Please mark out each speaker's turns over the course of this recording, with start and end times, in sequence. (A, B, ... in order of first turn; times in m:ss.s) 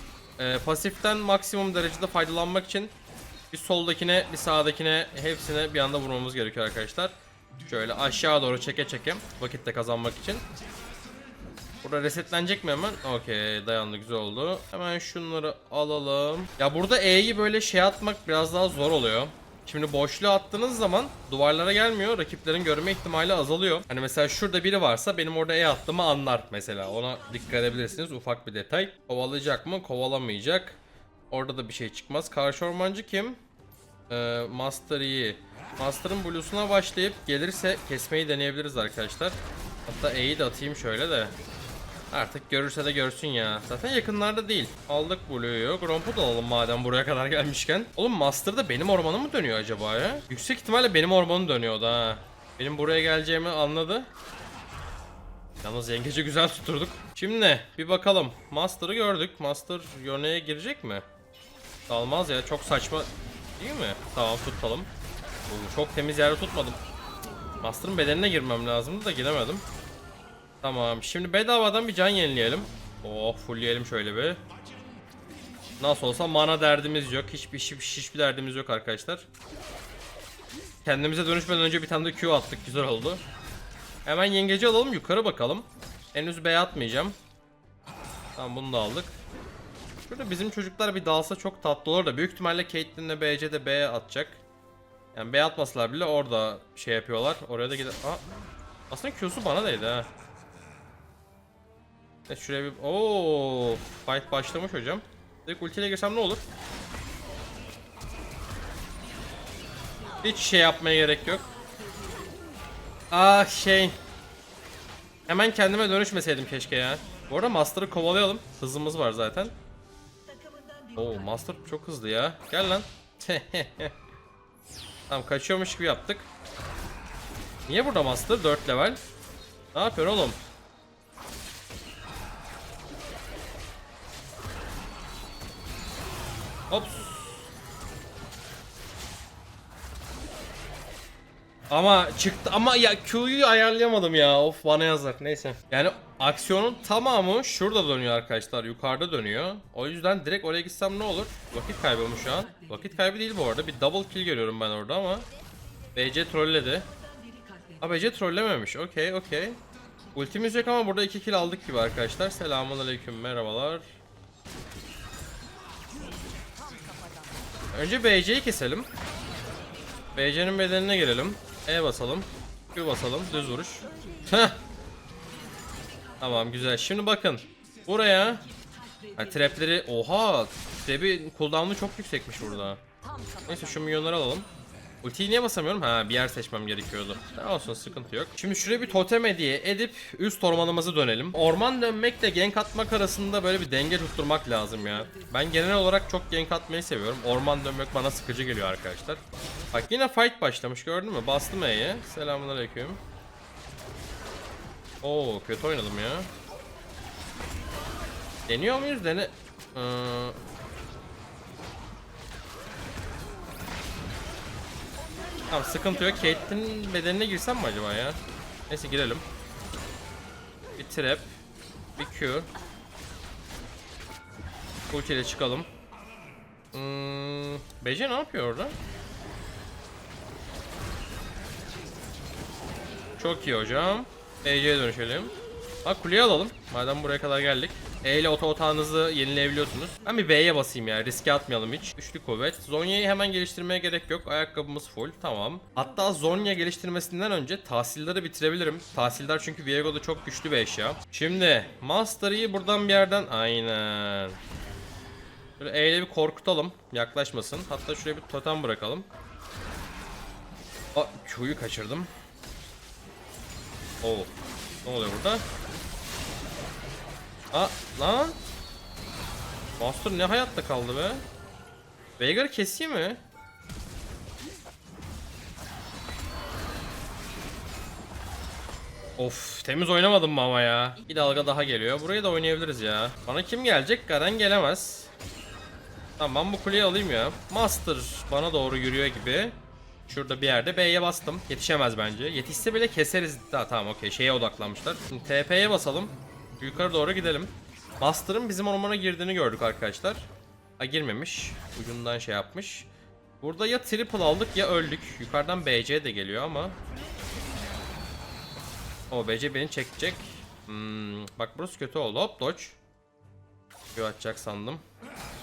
0:00.4-0:02.9 A
0:03.5-0:07.1 A
0:07.6-0:10.4 A
0:11.8-0:30.8 A
0:31.3-0:33.4 A
0:34.1-0:41.3 A
0:42.1-0:54.1 A
0:55.6-1:01.0 A
1:01.9-1:04.9 A
1:05.5-1:06.8 A
1:07.6-1:09.6 A
1:10.6-1:14.4 A
1:15.8-1:19.2 A
1:20.8-1:23.2 A
1:24.0-1:27.2 A
1:28.4-1:29.2 A
1:30.1-1:34.4 A
1:35.1-1:38.2 A
1:38.9-1:40.1 A
1:42.3-1:46.4 A
1:50.2-1:51.5 A
1:53.1-1:54.0 A
1:55.3-1:59.5 A
2:00.9-2:03.9 A
2:05.1-2:06.3 A
2:07.7-2:09.0 A
2:09.7-2:10.4 A
2:16.7-2:17.4 A
2:21.7-2:35.2 A
2:35.9-2:36.9 A
2:37.8-2:39.6 A
2:40.1-2:43.9 A
2:47.7-2:48.9 A
2:50.1-2:54.6 A
2:56.2-2:58.5 A
2:59.2-3:02.8 A
3:03.4-3:04.5 A
3:05.0-3:19.2 A
3:19.7-3:23.0 A
3:25.0-3:26.3 A
3:28.5-3:30.4 A
3:35.5-3:39.2 A
3:40.8-3:41.3 A
3:42.0-3:42.5 A
3:44.9-3:45.7 A
3:46.7-3:48.7 A
3:53.2-4:14.4 A
4:15.6-4:19.1 A
4:20.9-4:22.1 A
4:24.0-4:24.3 A
4:24.8-4:25.4 A
4:27.5-4:28.4 A
4:29.8-4:31.2 A
4:32.2-4:33.2 A
4:39.2-4:45.1 A
4:46.2-5:02.9 A
5:03.4-5:06.8 A
5:09.1-5:12.8 A
5:13.9-5:14.8 A